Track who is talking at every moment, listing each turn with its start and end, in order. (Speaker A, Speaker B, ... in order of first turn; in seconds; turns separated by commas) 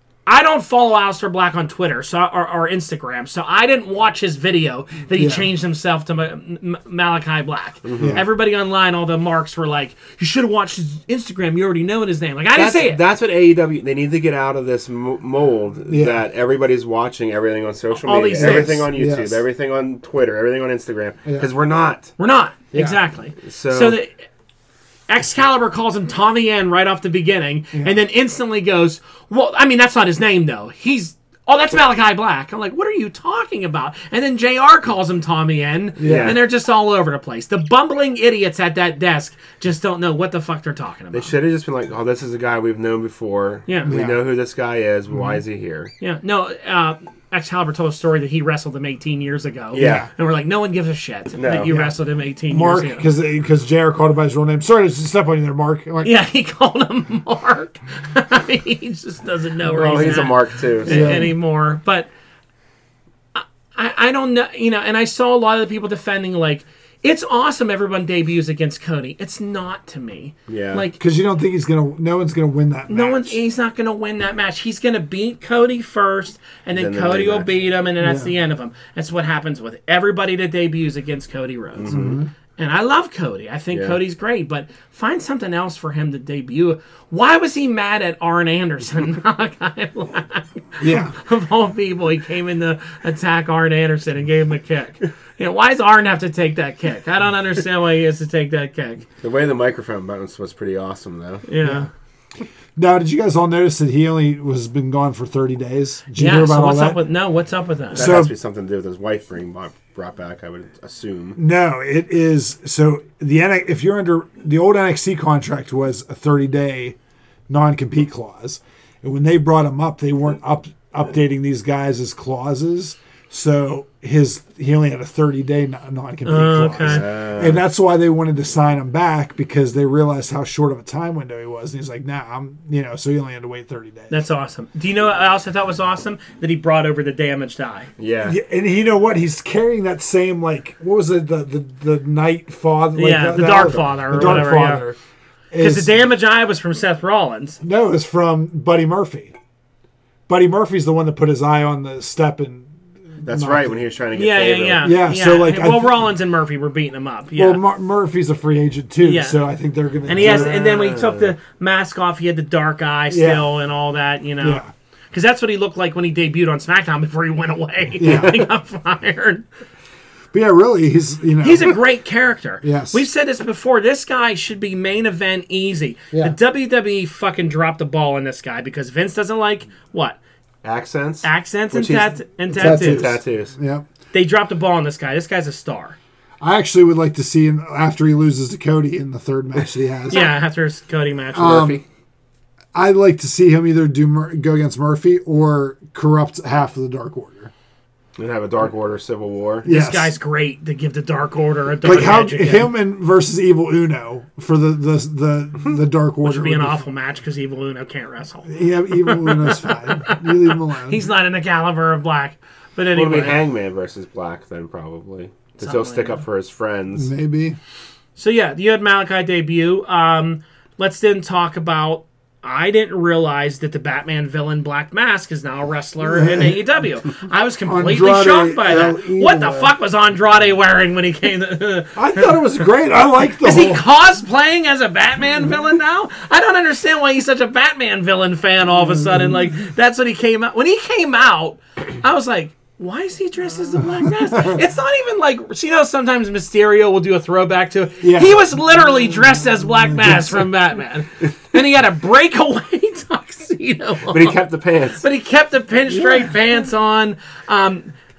Speaker A: 0.3-13.0, Speaker B: 5.2-5.5, Speaker C: 7.8-8.2, Speaker B: 8.0-8.2, Speaker C: 12.6-22.1, Speaker B: 15.9-16.2, Speaker A: 17.9-18.9, Speaker B: 18.4-19.4, Speaker A: 22.2-24.1, Speaker B: 22.7-23.0, Speaker C: 23.4-24.0, Speaker A: 25.1-41.3, Speaker B: 27.7-28.0, Speaker B: 36.0-36.4, Speaker C: 36.0-36.4, Speaker C: 41.1-45.9, Speaker A: 43.7-43.9, Speaker B: 43.9-44.2, Speaker A: 46.0-53.1, Speaker C: 49.7-50.1, Speaker B: 49.8-50.1, Speaker C: 51.4-51.8, Speaker B: 52.5-56.1, Speaker A: 56.0-62.1, Speaker C: 59.7-61.2, Speaker B: 60.9-61.3, Speaker A: 63.3-71.0, Speaker C: 70.5-70.8, Speaker B: 71.0-73.4, Speaker A: 72.9-82.0, Speaker C: 76.7-77.5, Speaker B: 78.0-78.3, Speaker C: 81.8-82.2, Speaker B: 81.9-82.3, Speaker A: 82.6-99.1, Speaker C: 83.7-84.0, Speaker B: 90.8-91.2, Speaker C: 99.2-101.5, Speaker A: 101.5-101.9, Speaker B: 101.6-101.9, Speaker B: 102.8-107.0, Speaker A: 106.2-108.2, Speaker C: 107.9-111.4, Speaker B: 108.0-108.3, Speaker B: 111.4-117.0, Speaker B: 117.5-134.2, Speaker A: 126.2-127.0, Speaker C: 126.8-127.6, Speaker A: 134.1-137.9, Speaker C: 138.0-138.4, Speaker B: 138.2-145.0, Speaker A: 142.9-144.9, Speaker B: 145.5-145.9, Speaker A: 145.6-147.6, Speaker B: 147.6-149.3, Speaker B: 150.3-153.8, Speaker C: 153.2-154.9, Speaker A: 154.1-157.6, Speaker B: 154.8-155.9, Speaker B: 157.4-160.6, Speaker A: 159.0-159.4, Speaker A: 160.1-169.5, Speaker C: 160.1-161.3, Speaker B: 163.1-163.4, Speaker B: 164.4-164.7, Speaker B: 168.0-168.4, Speaker B: 170.3-171.8, Speaker A: 171.4-180.2, Speaker B: 172.6-173.0, Speaker C: 180.6-183.5, Speaker A: 181.2-183.1, Speaker B: 182.5-183.8, Speaker A: 184.1-186.0, Speaker B: 186.4-190.2, Speaker A: 190.1-191.7, Speaker B: 191.3-191.8, Speaker C: 191.4-191.8, Speaker B: 192.7-197.5, Speaker C: 198.2-199.7, Speaker B: 199.7-200.1, Speaker A: 199.7-202.7, Speaker B: 201.8-206.8, Speaker A: 206.2-213.4, Speaker B: 208.5-211.0, Speaker C: 212.9-217.1, Speaker A: 215.6-216.2, Speaker B: 216.9-217.6, Speaker A: 218.2-232.5, Speaker B: 226.0-226.6, Speaker B: 227.7-229.7, Speaker B: 231.9-233.8, Speaker A: 233.4-254.4, Speaker B: 248.0-248.4, Speaker B: 249.9-250.3, Speaker C: 254.1-255.0, Speaker A: 255.0-257.9